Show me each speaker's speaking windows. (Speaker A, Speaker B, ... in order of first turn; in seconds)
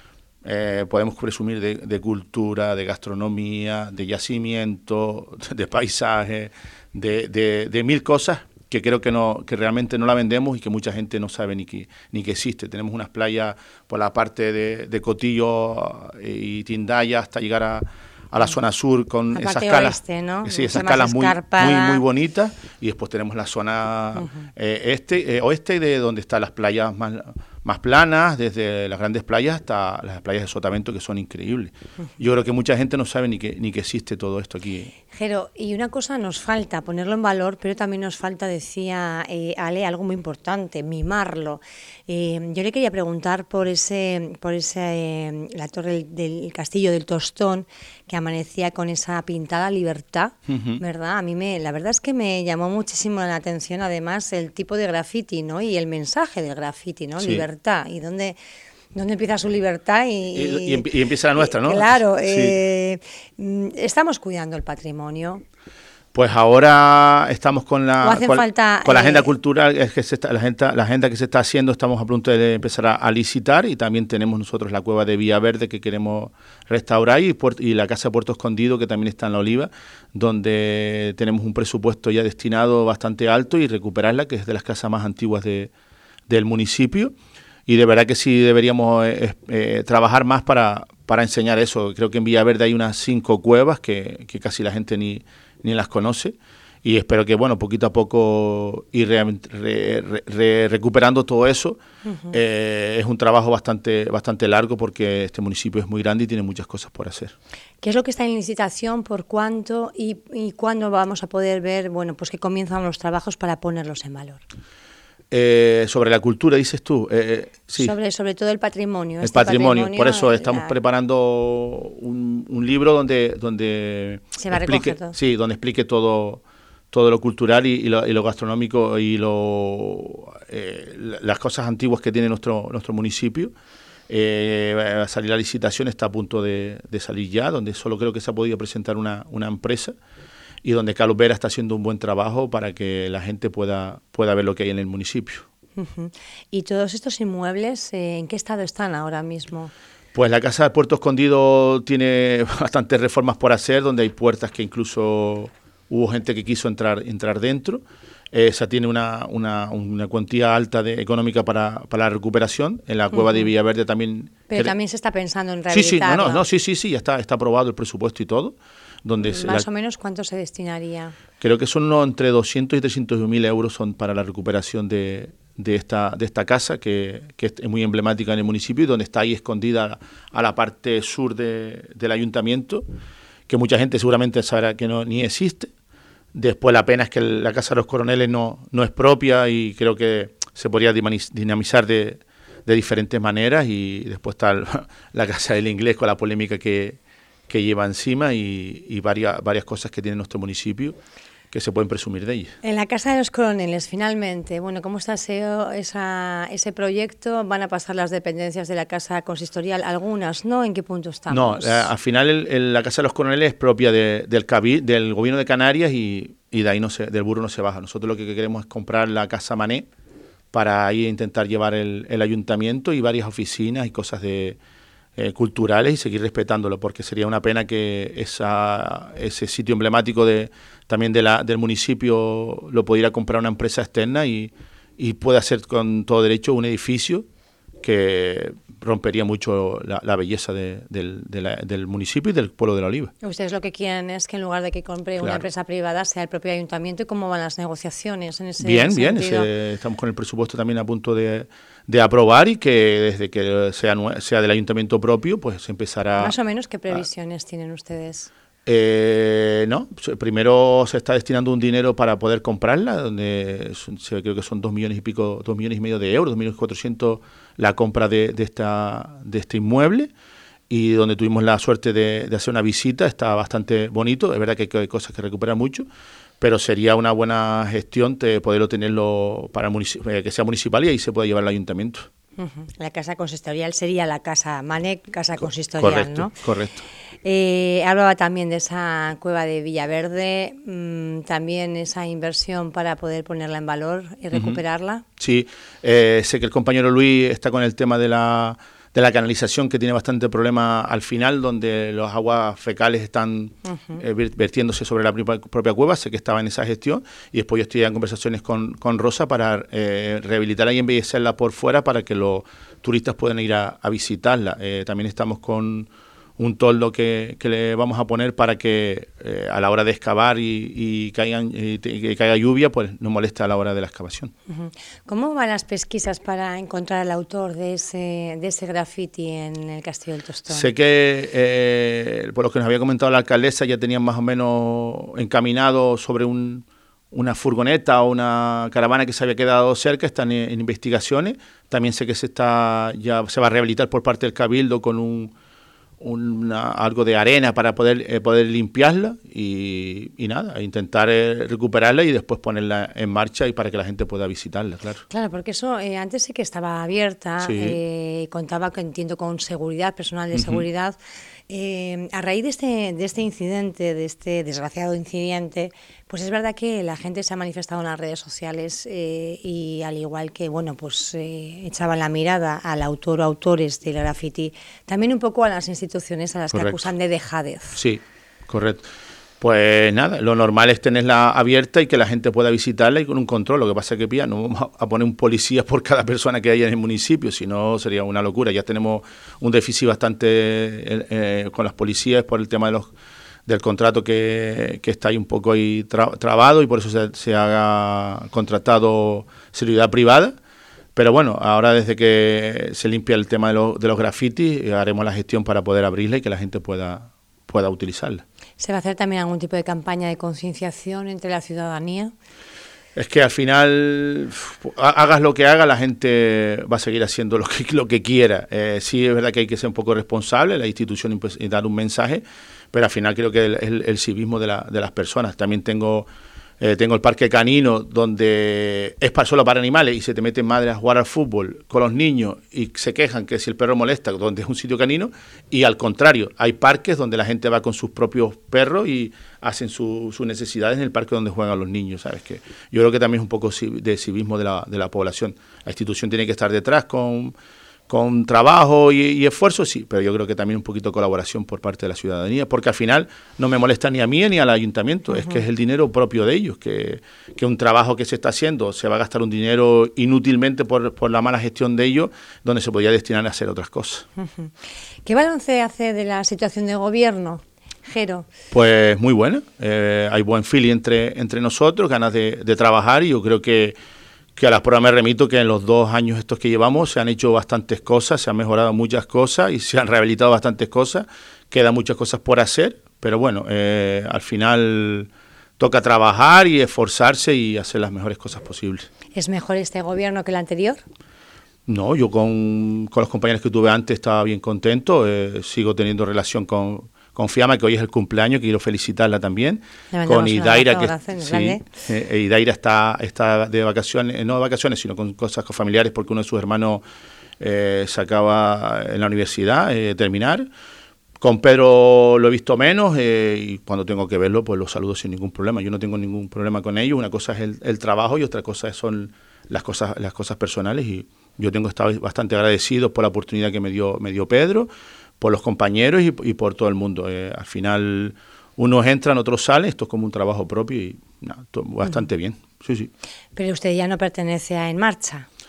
Speaker A: 0.4-34.9, 50.5-50.8, 57.2-57.5, 60.4-62.6, 66.1-85.7, 86.3-87.1, 87.7-101.8, 102.3-107.3, 115.3-117.9, 119.2-133.5, 134.1-139.9, 140.6-145.5, 150.1-164.7, 165.7-169.7, 171.4-182.8, 183.5-185.7, 186.3-197.0, 197.5-201.0, 201.5-202.6, 211.3-219.9, 220.5-224.6, 225.2-237.2, 237.8-243.1, 248.6-256.4, 258.7-270.1, 270.7-275.9, 276.4-282.1, 285.8-286.8, 294.3-294.6, 295.2-324.3, 330.5-345.3, 346.0-355.0, 357.4-357.8, 360.3-360.6, 376.5-376.9, 377.8-378.8, 379.4-392.9, 393.5-400.4, 400.9-408.2, 412.9-426.1, 426.6-447.3, 447.9-464.1, 468.5-473.8, 474.4-488.9, 491.7-506.8, 507.4-510.5, 511.2-524.7, 525.2-532.9
Speaker B: 19.3-22.0, 35.1-58.4, 58.9-65.4, 68.0-69.3, 102.1-102.3, 107.8-114.4, 117.8-120.7, 124.4-125.2, 145.8-149.7, 163.1-163.5, 164.5-166.4, 169.2-171.2, 202.6-211.9, 243.2-249.5, 256.2-258.3, 282.4-286.4, 287.2-295.0, 324.5-330.7, 355.1-361.0, 361.5-377.8, 408.6-412.1, 464.2-464.5, 465.1-468.3, 489.1-490.8, 499.9-501.6, 533.4-535.3